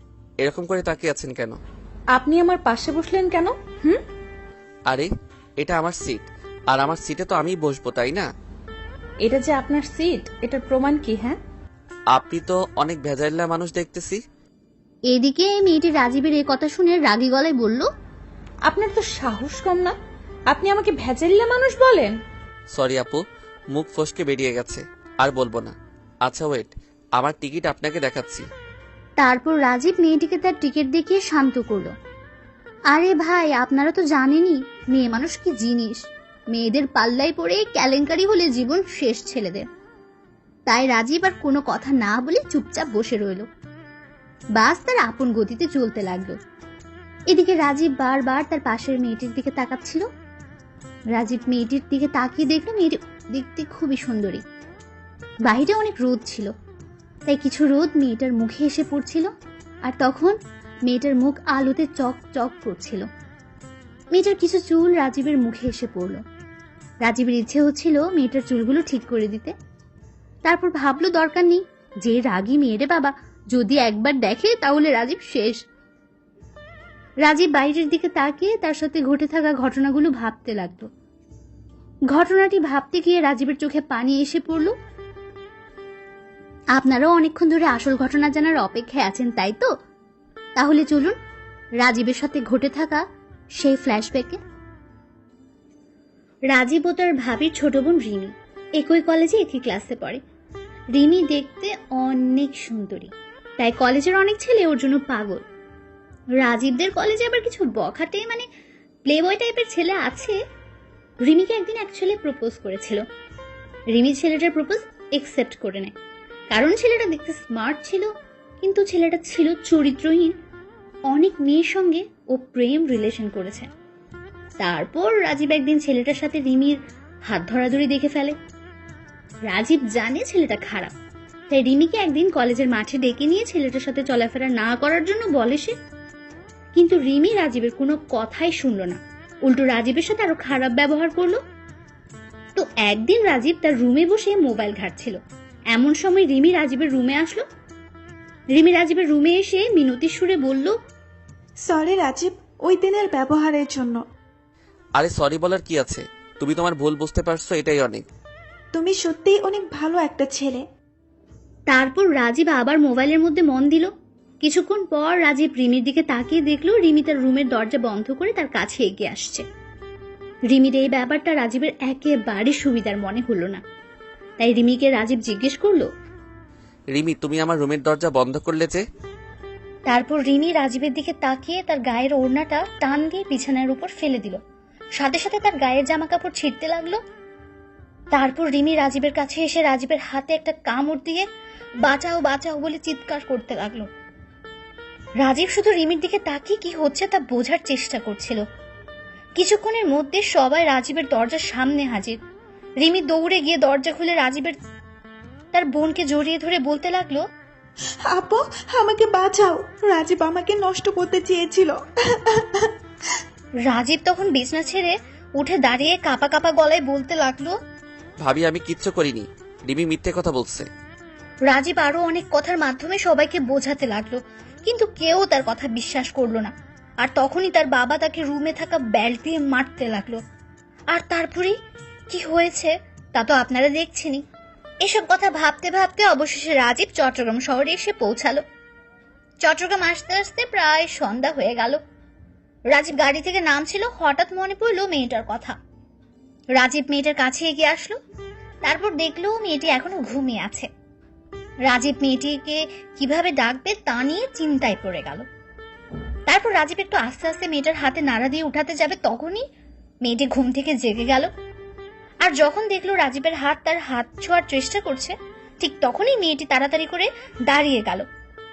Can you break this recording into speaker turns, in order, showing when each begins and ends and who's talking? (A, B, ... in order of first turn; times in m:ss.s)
0:00.4-0:01.6 A
0:02.1-0:04.0 B
0:05.6-0:08.3 A
0:09.2-0:11.4 B
0:12.1-0:14.2 A
0:15.1-0:17.9 C
0:18.6-0:19.9 B
0:20.5-0:22.1 B
0:22.7-0:23.2 A
0:23.7-0:28.5 A
0:29.2-0:31.9 C
0:32.9-0:36.0 C
0:36.5-0:39.6 C
0:40.7-0:43.4 C
0:44.6-0:46.4 C
0:47.3-0:50.0 C
0:51.1-0:54.4 C
0:55.4-0:56.5 C
0:57.3-0:59.3 C
0:59.8-1:00.4 C
1:00.9-1:03.0 C
1:04.1-1:06.2 C
1:07.0-1:09.5 C
1:10.4-1:15.6 C
1:17.2-1:20.9 C
1:22.1-1:24.7 C
1:26.8-1:29.7 C
1:30.6-1:31.1 C
1:31.8-1:33.0 C
1:33.6-1:34.4 C
1:36.5-1:40.2 C
1:40.9-1:45.4 C
1:46.4-1:48.4 C
1:49.0-1:50.4 C
1:51.2-1:53.0 C
1:53.9-1:55.9 C
1:56.5-1:58.1 C
1:58.6-2:00.3 C
2:01.1-2:03.7 C
2:04.6-2:08.4 C
2:09.4-2:10.9 C
2:11.5-2:15.7 C
2:16.7-2:21.4 C
2:22.6-2:25.2 C
2:25.7-2:27.4 C
2:28.5-2:30.7 C
2:31.6-2:34.0 D
2:35.0-2:38.0 A
2:38.7-2:40.6 D
2:41.7-2:43.9 C
2:44.4-2:49.4 C
2:50.5-2:53.6 C
2:54.4-2:55.9 C
2:56.9-2:58.8 A
2:59.9-3:04.4 C
3:05.0-3:07.0 C
3:08.1-3:11.2 C
3:11.8-3:13.9 C
3:15.2-3:18.4 C
3:19.4-3:22.2 C
3:22.8-3:24.5 C
3:25.5-3:27.2 C
3:28.1-3:32.7 D
3:33.7-3:37.5 C
3:38.2-3:40.7 A
3:41.5-3:50.2 C
3:50.9-3:51.6 C
3:52.1-3:54.2 C
3:54.8-3:58.4 C
3:59.4-4:01.8 C
4:02.7-4:05.6 C
4:06.6-4:08.0 C
4:08.6-4:10.7 C
4:11.7-4:15.2 C
4:16.3-4:19.4 C
4:20.0-4:21.3 C
4:22.2-4:28.0 C